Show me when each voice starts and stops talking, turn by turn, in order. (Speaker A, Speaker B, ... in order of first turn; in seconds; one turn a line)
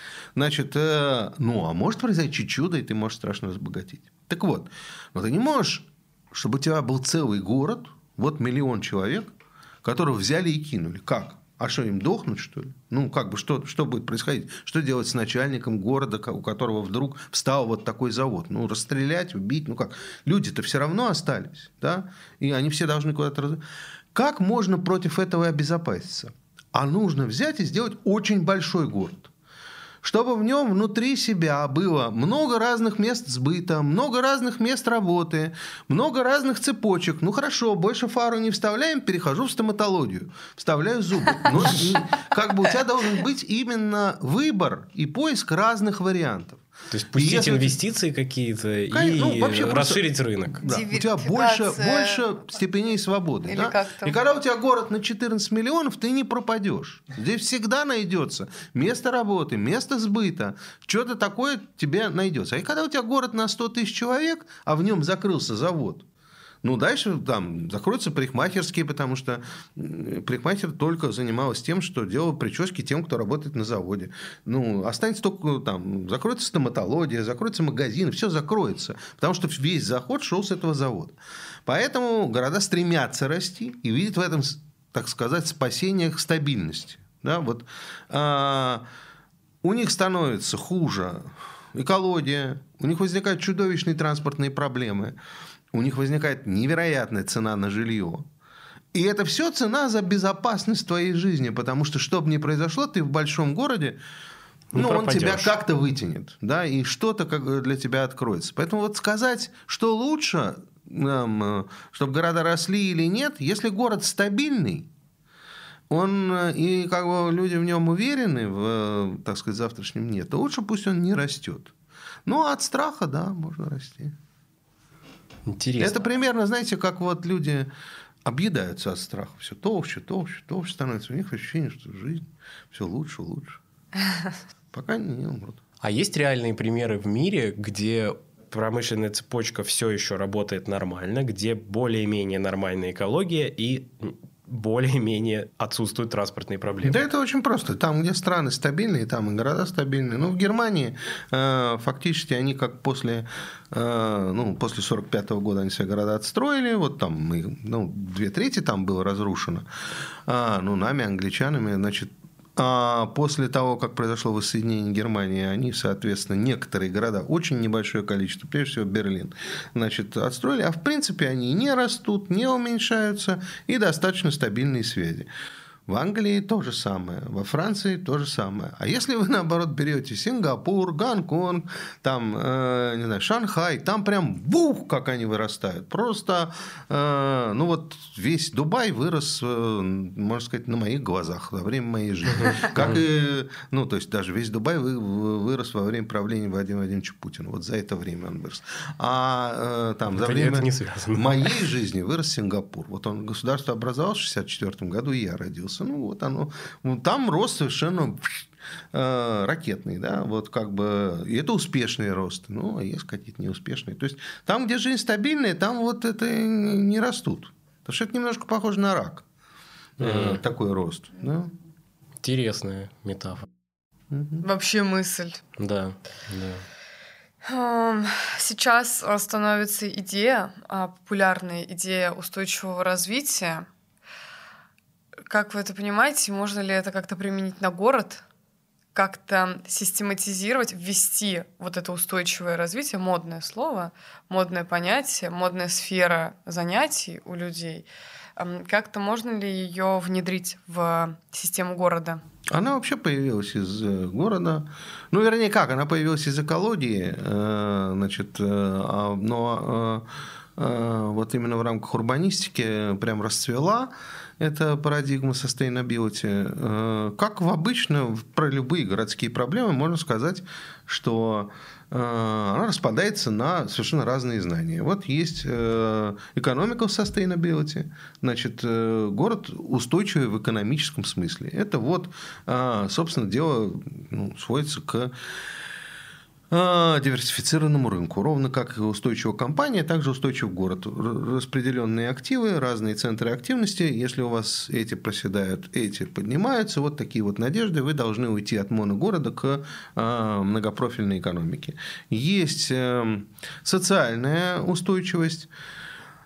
Speaker A: 0.3-23.6
Speaker A: 24.1-29.3
Speaker A: 30.0-46.6
Speaker B: 46.9-50.6
Speaker A: 47.1-47.8
Speaker A: 48.9-50.1
Speaker A: 50.6-66.1
Speaker C: 50.6-52.3
Speaker C: 53.5-54.2
Speaker A: 66.6-88.8
Speaker A: 89.6-95.2
Speaker A: 95.7-98.3
Speaker A: 98.9-104.0
Speaker B: 104.7-105.6
Speaker A: 104.8-114.9
Speaker A: 115.9-121.7
Speaker A: 122.2-124.2
Speaker B: 125.5-126.0
Speaker A: 125.8-127.7
Speaker A: 128.2-133.6
Speaker A: 134.7-135.6
Speaker B: 135.8-147.0
Speaker A: 146.8-159.7
Speaker A: 160.3-175.3
Speaker A: 175.9-219.2
Speaker B: 192.4-192.9
Speaker B: 200.1-201.5
Speaker A: 220.0-221.5
Speaker B: 220.0-220.4
Speaker B: 222.2-223.5
Speaker A: 224.1-224.4
Speaker C: 224.4-225.4
Speaker B: 225.6-226.6
Speaker C: 227.4-233.7
Speaker C: 235.3-238.2
Speaker C: 238.9-247.9
Speaker C: 248.4-252.2
Speaker A: 252.5-285.1
Speaker A: 286.5-305.5